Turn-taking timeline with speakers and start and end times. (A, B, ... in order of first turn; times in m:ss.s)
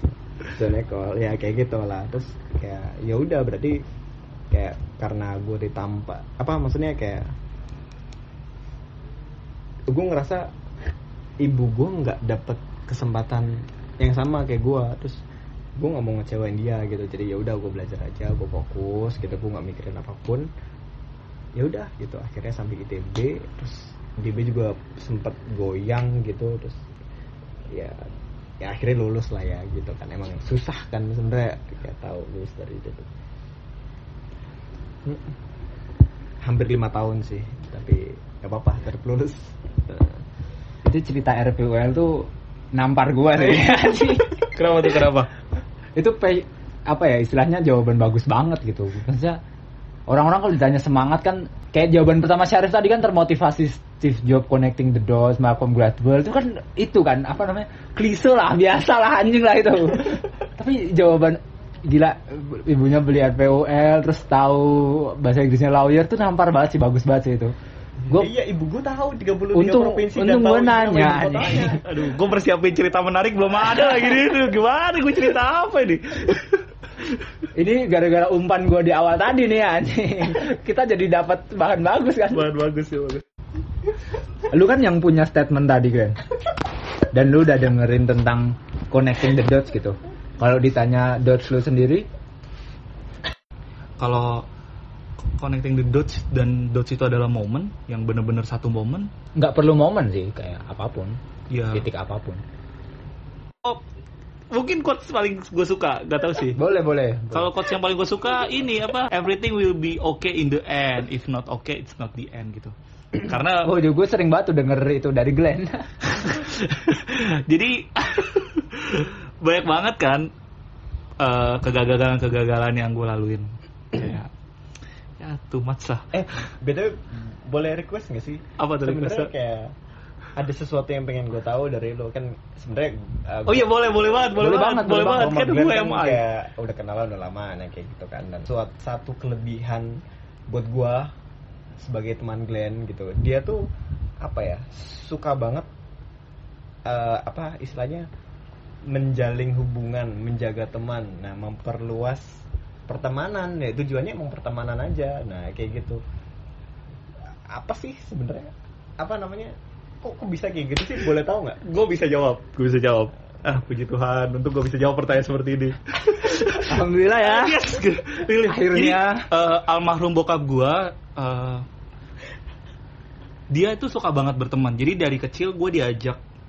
0:00.5-0:03.8 A
0:04.5-0:07.3 A
0:09.9-0:10.5 A
0:11.4-0:15.2 A
0:15.8-0:20.5 A
0:21.6-0:26.8 A
0:27.7-0:28.1 A
0:28.6-0:33.1 A
0:35.0-0:35.4 A
0:36.4-0:40.2 A
0:40.8-0:44.4 B
0:44.5-0:45.3 C
0:46.0-0:49.4 B
0:50.1-1:07.5 B
1:08.1-1:11.8 A
1:09.5-1:11.8 B
1:11.8-1:16.6 C
1:17.5-1:22.5 B
1:22.3-1:23.2 C
1:24.5-1:26.2 B
1:27.1-1:32.1 B
1:34.0-1:34.5 C
1:35.4-1:39.1 C
1:39.4-1:41.2 B
1:41.5-1:41.8 C
1:41.7-1:42.4 B
1:44.5-1:46.6 C
1:46.6-1:47.5 B
1:47.3-1:53.7 C
1:53.6-1:56.2 B
1:56.3-2:00.3 C
2:01.2-2:04.3 C
2:05.2-2:06.2 C
2:06.1-2:09.7 A
2:08.6-2:09.3 C
2:10.4-2:21.1 A
2:13.5-2:16.2 C
2:14.4-2:15.3 B
2:21.8-2:23.6 A
2:24.2-2:25.7 A
2:26.8-2:28.1 A
2:28.9-2:36.0 A
2:37.3-2:41.6 A
2:41.6-2:51.6 C
2:46.5-2:47.7 B
2:48.4-2:49.2 B
2:53.5-2:56.2 C